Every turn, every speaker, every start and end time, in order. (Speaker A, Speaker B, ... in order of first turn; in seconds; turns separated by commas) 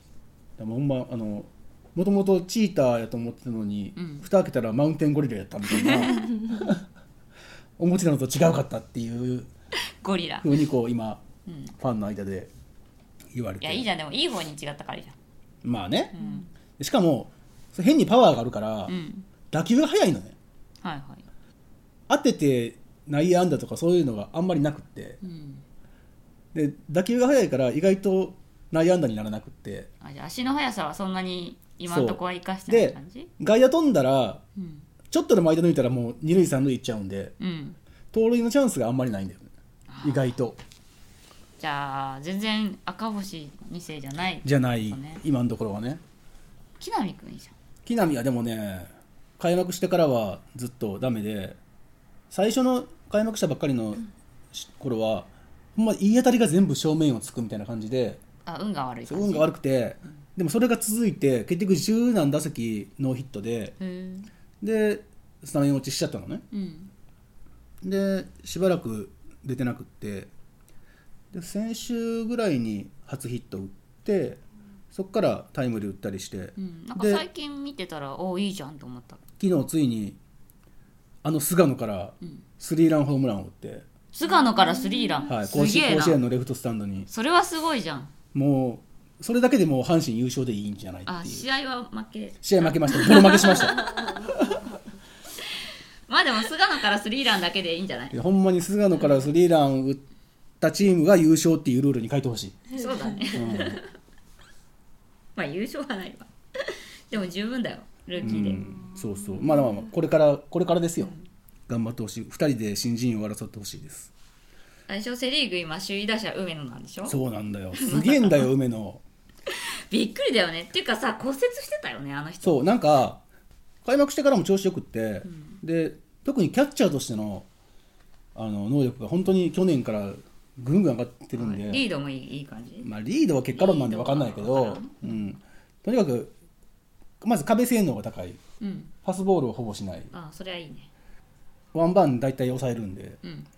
Speaker A: 0.6-6.8, Speaker B: 4.0-4.2, Speaker B: 5.7-6.3, Speaker A: 7.8-9.5, Speaker B: 10.0-10.5, Speaker A: 10.4-11.2, Speaker B: 11.5-11.7, Speaker A: 11.8-12.5, Speaker A: 13.3-13.9, Speaker B: 13.6-15.1, Speaker A: 15.6-16.1, Speaker B: 16.1-16.5, Speaker A: 16.8-18.9, Speaker B: 18.9-19.3, Speaker A: 19.5-20.4, Speaker B: 20.8-21.2, Speaker A: 22.1-25.2, Speaker B: 25.2-25.6, Speaker A: 26.5-29.9, Speaker B: 30.0-33.3, Speaker A: 31.9-34.4, Speaker B: 34.6-34.9, Speaker A: 35.1-37.3, Speaker B: 37.4-37.8, Speaker A: 38.1-39.5, Speaker B: 39.9-40.3, Speaker A: 40.0-40.6, Speaker B: 41.6-45.2, Speaker A: 44.4-46.0, Speaker B: 46.8-47.5, Speaker A: 47.9-51.6, Speaker A: 52.3-58.2, Speaker B: 58.5-59.5, Speaker A: 59.1-63.8, Speaker B: 63.8-64.3, Speaker A: 64.6-66.5, Speaker B: 66.5-66.9, Speaker A: 67.8-70.3, Speaker A: 71.3-74.4, Speaker A: 74.9-77.2, Speaker B: 76.6-79.2, Speaker A: 79.4-80.2, Speaker A: 81.2-83.8, Speaker B: 84.1-86.2, Speaker A: 85.3-87.1, Speaker B: 87.1-88.1, Speaker A: 88.3-91.5, Speaker B: 91.1-94.5, Speaker A: 92.4-94.6, Speaker B: 96.1-98.2, Speaker A: 98.1-100.0, Speaker A: 100.6-102.7, Speaker B: 102.7-103.9, Speaker A: 103.3-103.8, Speaker B: 105.4-108.6, Speaker A: 108.2-111.1, Speaker B: 111.0-111.2, Speaker A: 111.7-114.1, Speaker B: 114.9-117.2, Speaker A: 117.1-119.0, Speaker B: 117.7-118.5, Speaker B: 119.5-122.7, Speaker A: 122.4-123.2, Speaker A: 123.8-127.5, Speaker B: 125.3-125.6, Speaker A: 128.3-131.8, Speaker B: 131.3-132.9, Speaker A: 132.8-136.3, Speaker B: 133.5-135.1, Speaker A: 137.2-138.4, Speaker B: 138.6-138.9, Speaker A: 139.0-140.1, Speaker B: 140.1-140.9, Speaker A: 141.7-143.2